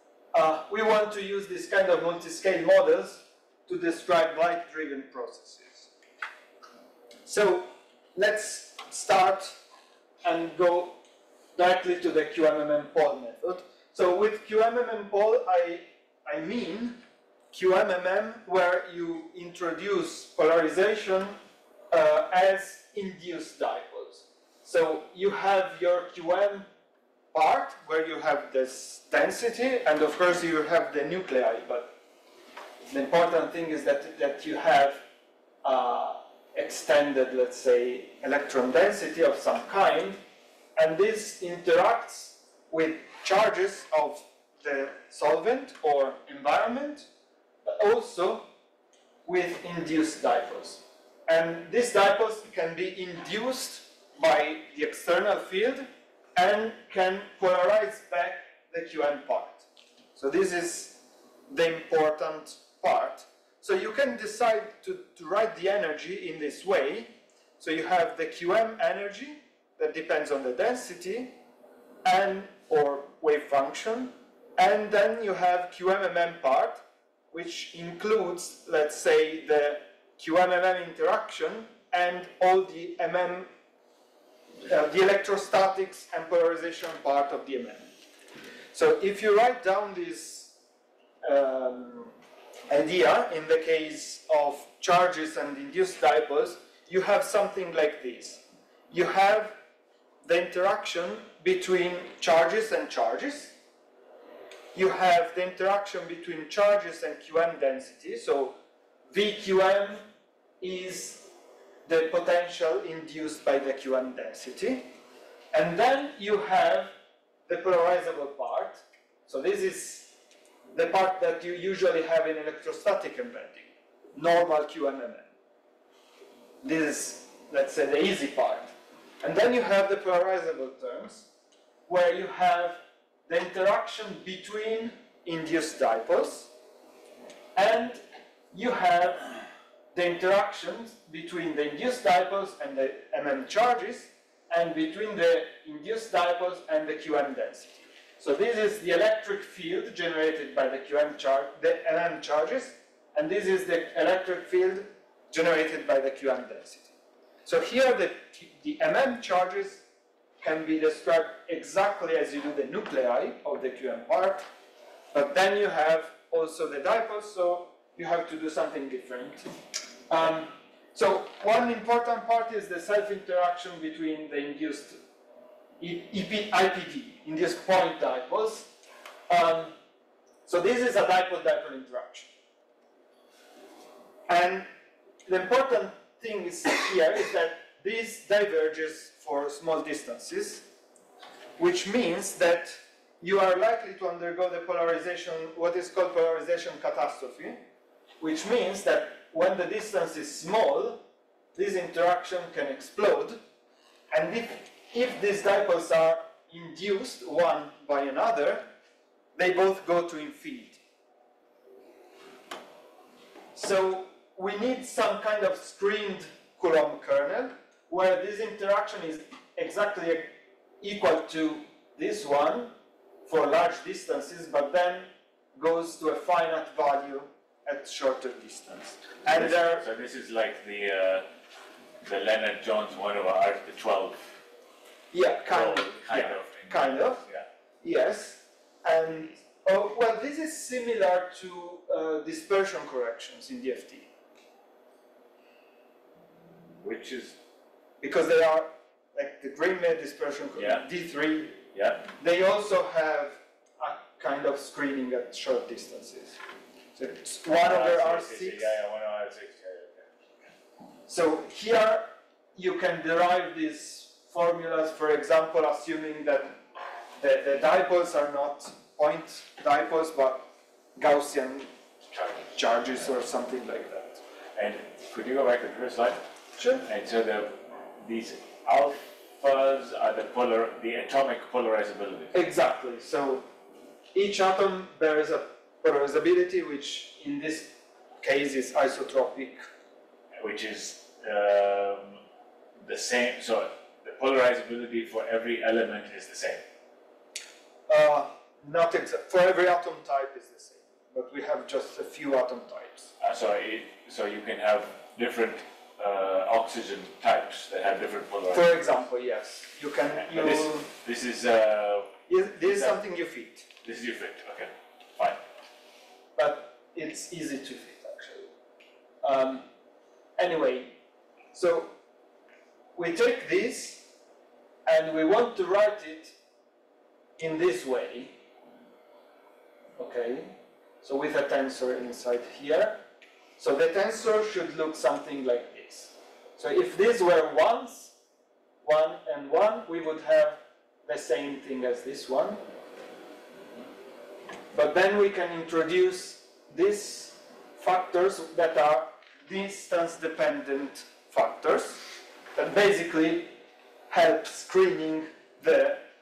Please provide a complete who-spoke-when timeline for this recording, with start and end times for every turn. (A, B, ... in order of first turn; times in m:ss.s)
0:00.3-0:05.9 A
0:07.2-0:09.5 A
0:10.2-0:11.0 A
0:11.6-0:17.0 A
0:17.5-0:21.4 A
0:21.9-0:26.7 A
0:27.3-0:31.9 A
0:32.8-0:35.0 A
0:35.6-0:40.2 A
0:40.8-0:47.0 A
0:47.6-0:48.5 A
0:49.2-0:59.6 A
1:00.2-1:11.3 A
1:12.0-1:23.5 A
1:24.6-1:27.8 A
1:28.7-1:30.5 A
1:31.2-1:32.1 A
1:32.7-1:39.5 A
1:40.2-1:43.5 A
1:44.7-1:48.6 A
1:49.1-1:50.1 A
1:50.6-1:51.3 A
1:51.8-1:54.9 A
1:55.5-1:56.9 A
1:57.5-2:00.1 A
2:00.7-2:05.2 A
2:06.6-2:08.7 A
2:09.2-2:11.3 A
2:11.9-2:16.5 A
2:17.5-2:18.0 A
2:18.5-2:19.4 A
2:19.9-2:36.9 A
2:37.4-2:39.8 A
2:40.4-2:44.4 A
2:45.1-2:49.5 A
2:50.1-2:55.0 A
2:55.8-2:58.7 A
2:59.3-2:59.7 A
3:00.5-3:02.3 A
3:04.3-3:04.7 A
3:05.2-3:10.6 A
3:11.6-3:17.6 A
3:18.2-3:21.0 A
3:21.5-3:23.4 A
3:24.1-3:28.7 A
3:29.4-3:30.8 A
3:33.5-3:42.7 A
3:43.2-3:49.8 A
3:49.2-3:51.2 B
3:52.0-3:54.3 B
3:55.1-3:57.2 A
3:55.4-3:57.4 B
3:57.8-4:04.1 A
4:06.7-4:07.4 B
4:08.0-4:16.4 A
4:10.6-4:10.8 B
4:11.7-4:12.0 B
4:16.9-4:18.7 A
4:17.6-4:20.1 B
4:21.1-4:26.6 A
4:27.2-4:31.7 A
4:32.1-4:32.5 B
4:32.5-4:34.2 A
4:34.5-4:36.2 B
4:36.6-4:36.8 A
4:36.8-4:42.3 B
4:42.3-4:43.4 A
4:44.1-4:49.6 A
4:50.3-4:52.2 B
4:52.8-4:56.6 B
4:57.9-5:03.1 A
5:03.2-5:08.7 B
5:08.5-5:10.9 A
5:10.2-5:12.1 B
5:12.3-5:13.6 A
5:13.8-5:15.4 B
5:16.4-5:18.5 A
5:19.2-5:19.6 A
5:20.4-5:21.0 A
5:21.5-5:21.9 A
5:22.9-5:24.0 A
5:24.8-5:26.3 A
5:27.4-5:28.3 A
5:30.0-5:33.0 A
5:33.6-5:38.1 A
5:38.8-5:42.6 A
5:44.7-5:53.6 A
5:54.1-5:56.0 A